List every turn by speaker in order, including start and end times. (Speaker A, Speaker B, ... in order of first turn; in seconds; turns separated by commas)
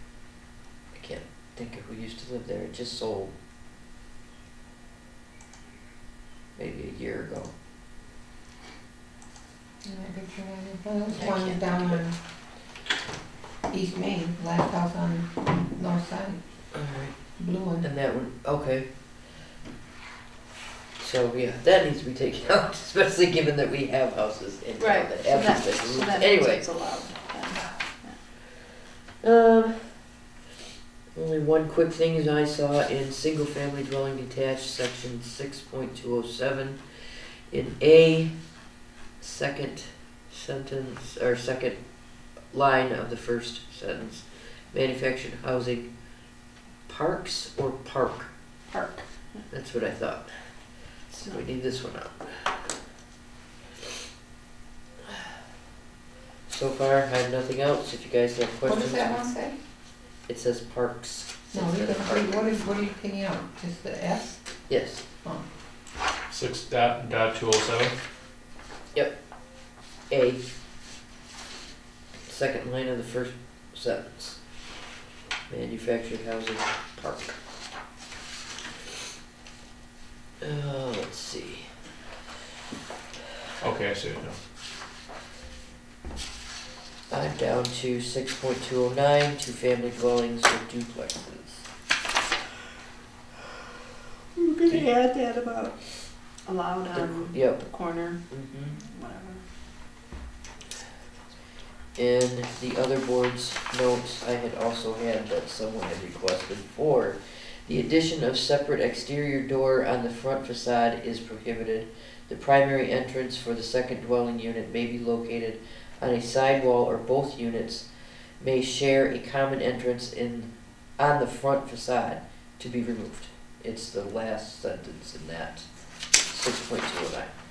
Speaker A: 0.9-3.3, Speaker A: 6.6-7.5, Speaker B: 9.8-12.2, Speaker A: 11.1-12.0, Speaker B: 13.7-16.4, Speaker A: 16.7-17.2, Speaker B: 17.4-17.9, Speaker A: 17.8-18.9, Speaker A: 21.0-26.6, Speaker C: 24.8-28.2, Speaker A: 29.2-30.0, Speaker A: 31.1-36.8, Speaker A: 37.5-38.3, Speaker A: 39.2-41.8, Speaker A: 42.5-45.9, Speaker A: 46.9-48.3, Speaker C: 48.7-49.0, Speaker A: 49.5-50.3, Speaker A: 51.1-52.5, Speaker A: 56.5-59.2, Speaker B: 58.7-59.6, Speaker A: 60.3-62.5, Speaker B: 61.5-64.4, Speaker A: 64.7-65.0, Speaker D: 66.3-67.9, Speaker A: 70.1-70.4, Speaker A: 72.3-74.4, Speaker A: 75.5-77.4, Speaker A: 80.4-81.7, Speaker D: 83.6-84.4, Speaker A: 87.1-91.7, Speaker C: 94.3-95.8, Speaker C: 96.5-98.2, Speaker A: 96.9-97.7, Speaker A: 98.3-98.8, Speaker C: 98.7-99.4, Speaker A: 101.9-117.9, Speaker A: 118.4-125.7, Speaker A: 126.2-127.3